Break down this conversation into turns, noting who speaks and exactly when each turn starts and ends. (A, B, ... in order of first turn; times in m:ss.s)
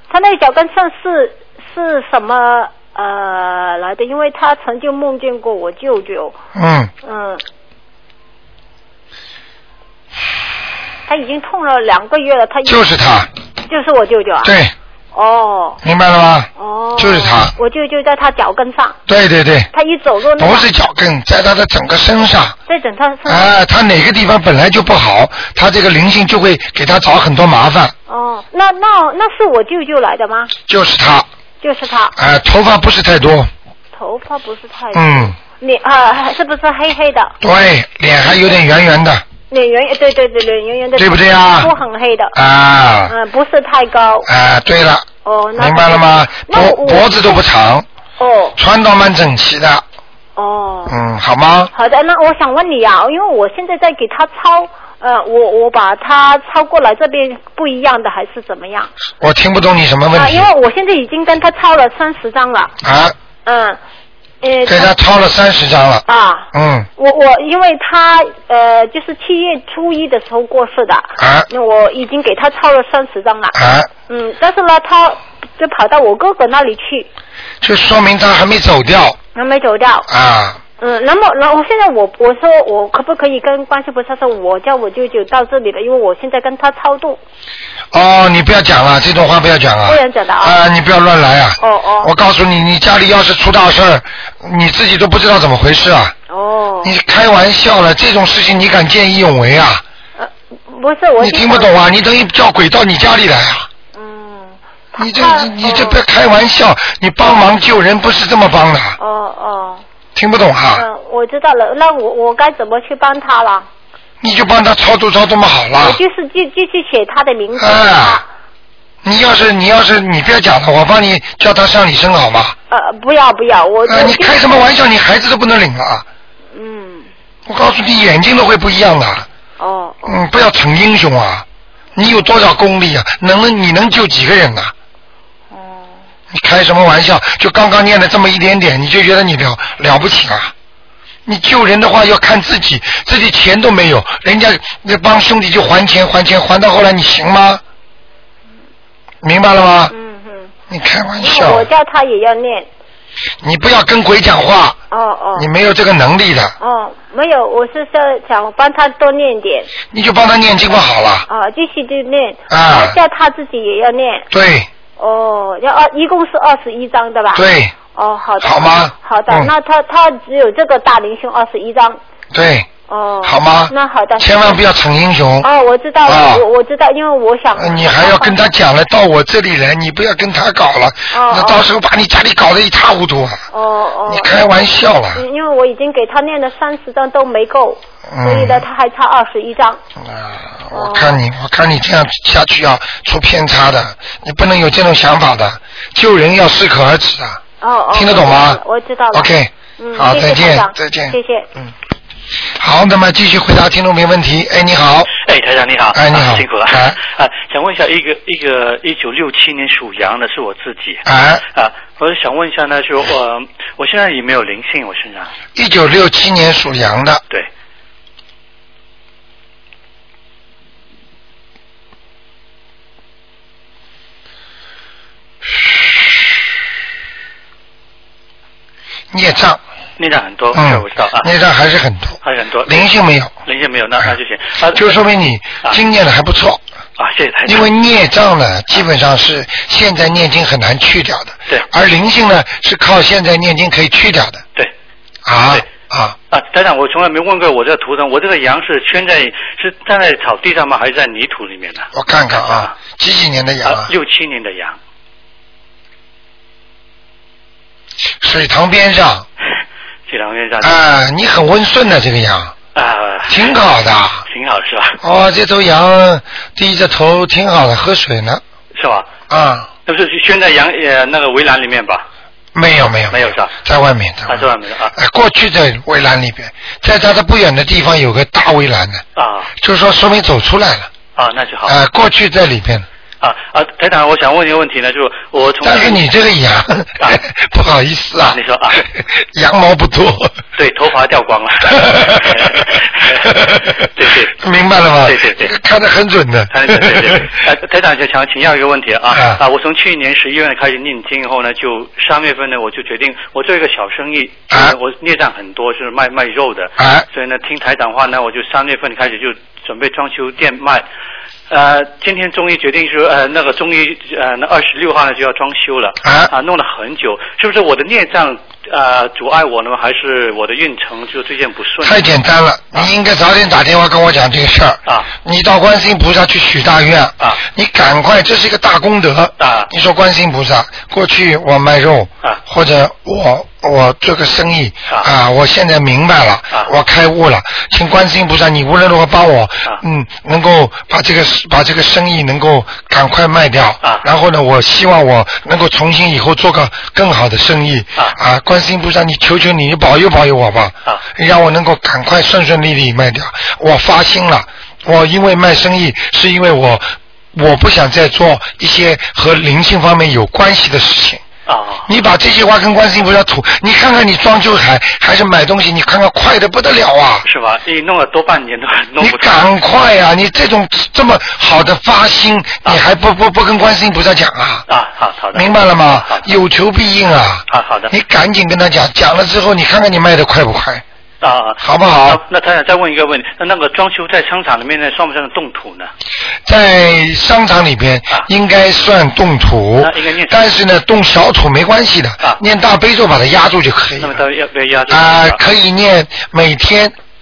0:00.1-0:06.4 A
0:06.6-0:06.9 B
0:07.0-0:07.4 A
0:11.1-0:12.8 A
0:12.7-0:13.3 B
0:13.7-0:14.5 A
0:14.4-0:14.7 B
0:15.1-0:15.8 A
0:15.8-0:17.5 B
0:16.6-0:19.0 A
0:19.1-0:19.7 B
0:19.7-0:20.7 A
0:20.4-0:22.6 B
0:22.7-0:23.5 A
0:23.3-0:27.9 B
0:28.1-0:30.5 A
0:30.7-0:31.3 B
0:31.6-0:32.1 A
0:32.2-0:33.5 B
0:33.9-0:37.4 A
0:34.9-0:35.4 B
0:37.4-0:39.2 B
0:39.5-0:42.4 A
0:41.0-0:41.7 B
0:42.3-0:43.1 B
0:43.1-0:44.3 A
0:44.3-0:47.9 B
0:45.2-0:47.4 A
0:48.2-0:48.6 A
0:48.6-0:49.8 B
0:50.4-0:51.0 A
0:50.9-0:51.7 B
0:51.7-0:58.9 A
0:59.2-1:00.5 B
1:00.2-1:02.7 A
1:02.8-1:03.2 B
1:03.4-1:03.8 A
1:04.4-1:04.9 A
1:04.7-1:06.9 B
1:06.1-1:13.5 A
1:11.2-1:11.5 B
1:13.5-1:13.9 B
1:14.1-1:17.1 A
1:17.6-1:19.2 B
1:19.4-1:20.1 A
1:20.1-1:20.6 B
1:20.8-1:27.2 A
1:27.9-1:36.1 B
1:29.9-1:30.6 A
1:31.6-1:32.1 A
1:36.3-1:37.0 A
1:36.8-1:39.8 B
1:40.2-1:41.7 A
1:41.2-1:43.7 B
1:44.0-1:46.0 A
1:45.0-1:49.0 B
1:49.0-1:49.8 A
1:50.2-1:50.9 B
1:50.7-1:53.7 A
1:54.2-1:56.0 B
1:55.8-1:58.3 A
1:57.6-1:58.2 B
1:59.0-2:02.6 B
2:02.7-2:04.4 A
2:03.9-2:06.1 B
2:06.5-2:07.1 A
2:07.5-2:09.3 B
2:09.6-2:10.2 A
2:10.0-2:14.7 B
2:15.5-2:16.0 A
2:16.3-2:20.5 B
2:21.3-2:27.6 B
2:29.2-2:29.9 B
2:29.9-2:30.5 A
2:30.7-2:31.7 B
2:31.2-2:32.7 A
2:33.4-2:34.8 B
2:34.9-2:35.5 A
2:35.4-2:36.6 B
2:36.6-2:39.7 A
2:39.9-2:41.3 B
2:41.3-2:44.3 A
2:42.5-2:43.0 B
2:44.3-2:44.7 B
2:45.0-2:47.4 A
2:47.4-2:47.7 B
2:48.0-2:52.0 A
2:48.4-2:49.5 B
2:52.3-2:52.7 B
2:52.9-2:54.6 A
2:53.2-2:55.5 B
2:55.4-2:58.4 A
2:56.1-2:56.4 B
2:57.6-3:03.4 B
3:01.1-3:01.7 A
3:03.5-3:04.4 A
3:04.1-3:05.2 B
3:05.1-3:09.8 A
3:08.1-3:08.6 B
3:10.0-3:17.4 B
3:10.7-3:11.2 A
3:17.6-3:21.5 A
3:17.9-3:18.6 B
3:19.1-3:21.7 B
3:22.6-3:25.1 B
3:25.2-3:31.0 C
3:25.9-3:27.0 B
3:31.0-3:31.4 B
3:31.5-3:35.3 C
3:35.6-3:37.2 B
3:49.1-3:49.6 B
3:50.0-3:51.3 C
3:50.5-3:53.3 B
3:52.2-3:52.9 C
3:53.5-3:54.8 C
3:54.7-3:56.6 B
3:57.0-3:57.7 C
3:57.4-4:04.4 B
4:05.2-4:06.2 B
4:06.3-4:12.7 C
4:11.9-4:13.9 B
4:13.6-4:14.8 C
4:18.2-4:19.3 B
4:20.1-4:20.8 C
4:20.6-4:22.5 B
4:22.8-4:23.5 C
4:23.3-4:24.2 B
4:24.3-4:25.0 C
4:25.0-4:28.4 B
4:28.8-4:29.1 C
4:29.3-4:29.7 B
4:29.9-4:32.1 C
4:32.5-4:39.0 B
4:33.1-4:33.5 C
4:34.3-4:34.9 C
4:39.2-4:39.5 C
4:39.6-4:40.9 B
4:41.2-4:41.8 C
4:41.7-4:42.9 B
4:43.2-4:46.0 C
4:45.6-4:50.4 B
4:48.2-4:48.8 C
4:50.6-4:54.4 C
4:51.8-4:52.7 B
4:53.3-4:53.7 B
4:54.4-4:57.3 B
4:55.0-4:55.5 C
4:56.5-5:10.9 C
4:59.1-4:59.4 B
5:04.5-5:04.8 B
5:06.8-5:07.1 B
5:11.5-5:22.1 C
5:16.0-5:16.3 B
5:21.8-6:01.2 B
5:29.4-5:29.7 C
6:01.5-6:01.9 C
6:01.9-6:07.3 B
6:07.3-6:09.4 C
6:09.0-6:14.7 B
6:14.7-6:16.3 C
6:15.3-6:20.8 B
6:17.5-6:17.9 C
6:21.2-6:25.9 C
6:21.6-6:22.2 B
6:26.5-6:34.2 B
6:29.8-6:30.5 C
6:34.0-6:35.4 C
6:34.9-6:36.9 B